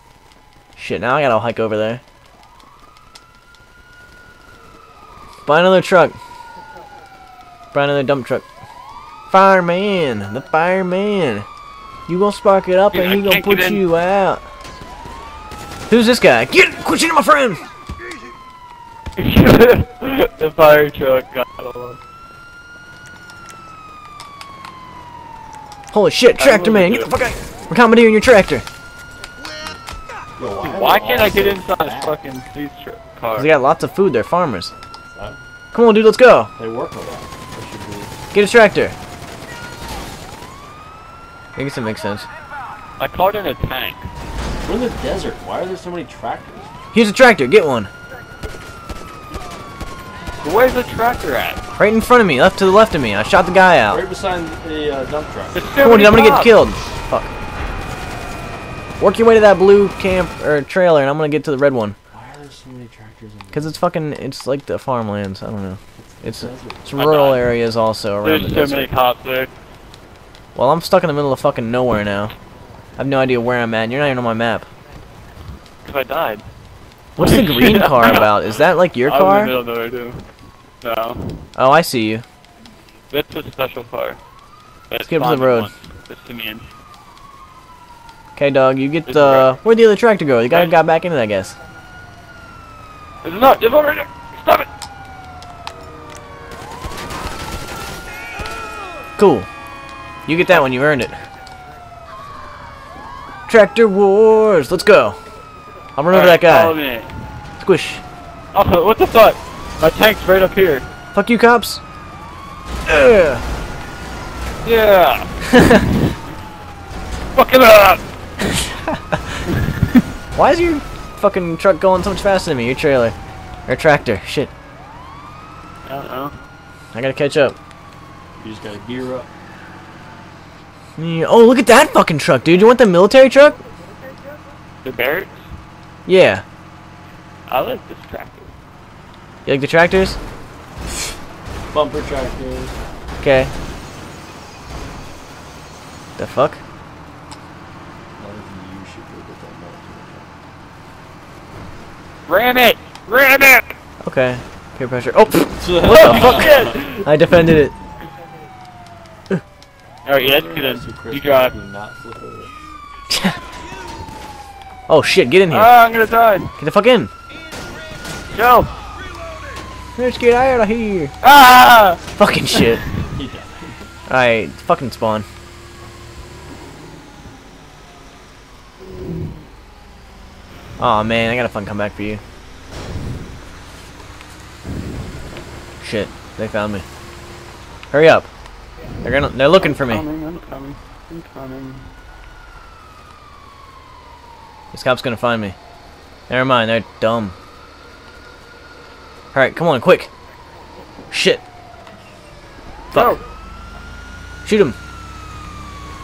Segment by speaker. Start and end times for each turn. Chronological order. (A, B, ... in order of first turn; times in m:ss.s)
0:00.8-0:02.0 A
0:05.4-0:06.2 A
0:07.7-0:08.4 A
0:09.3-0:11.4 A
0:12.1-0:14.4 A
0:12.9-0:13.8 B
0:15.9-0:17.6 A
0:19.2-0:22.0 B
0:25.9-0:28.6 A
0:26.4-0:27.1 B
0:30.4-0:32.2 C
0:30.6-0:33.5 B
0:33.4-0:34.7 A
0:35.1-0:35.4 C
0:35.7-0:36.5 A
0:36.6-0:38.1 C
0:38.3-0:39.0 A
0:41.6-0:42.3 A
0:43.0-0:44.1 B
0:44.6-0:46.7 C
0:46.9-0:47.9 A
0:50.4-0:51.6 B
0:51.8-0:54.0 A
0:53.9-0:55.8 C
0:55.5-0:56.5 B
0:55.8-0:57.3 A
0:59.0-1:02.0 A
1:02.1-1:03.8 C
1:03.5-1:08.9 A
1:06.0-1:06.8 C
1:07.0-1:07.4 B
1:08.2-1:09.5 B
1:10.5-1:12.3 A
1:13.0-1:14.7 A
1:15.8-1:16.4 B
1:17.2-1:19.5 A
1:17.2-1:18.3 B
1:19.0-1:20.3 B
1:20.8-1:21.5 B
1:21.6-1:22.2 A
1:23.1-1:24.2 B
1:24.9-1:26.6 B
1:25.1-1:25.7 A
1:28.4-1:31.6 A
1:29.0-1:29.5 B
1:30.5-1:30.8 B
1:33.2-1:34.7 B
1:39.2-1:39.5 A
1:40.2-1:41.2 A
1:43.5-1:45.2 A
1:46.0-1:46.8 A
1:46.1-1:47.2 B
1:47.6-1:48.0 A
1:48.5-1:50.8 B
1:51.1-1:51.8 A
1:52.8-1:53.4 A
1:54.6-1:55.3 B
1:55.4-1:55.9 A
1:57.3-1:58.0 B
1:58.5-1:59.4 A
2:00.3-2:03.1 A
2:03.7-2:04.5 A
2:05.8-2:06.3 B
2:06.9-2:07.6 A
2:08.4-2:09.3 C
2:11.0-2:13.6 A
2:14.8-2:15.4 B
2:16.0-2:16.4 A
2:17.5-2:18.5 B
2:19.4-2:20.2 A
2:21.7-2:22.8 C
2:23.2-2:23.5 A
2:26.2-2:26.6 A
2:28.2-2:30.3 C
2:32.3-2:33.7 B
2:34.0-2:37.7 A
2:35.6-2:36.8 C
2:35.8-2:37.1 B
2:40.0-2:41.5 B
2:40.2-2:42.5 C
2:43.1-2:43.4 A
2:44.9-2:45.7 A
2:45.5-2:46.5 B
2:46.6-2:47.1 A
2:48.3-2:48.7 B
2:50.0-2:51.1 A
2:51.2-2:52.0 B
2:52.2-2:52.8 A
2:53.1-2:53.8 C
2:54.1-2:55.2 A
3:00.8-3:02.2 A
3:05.8-3:06.8 A
3:07.9-3:08.3 A
3:09.0-3:10.0 A
3:09.6-3:11.9 B
3:14.7-3:15.6 A
3:16.3-3:17.3 A
3:19.3-3:20.1 A
3:21.1-3:21.4 A
3:22.9-3:23.2 A
3:22.9-3:23.2 B
3:24.4-3:24.8 A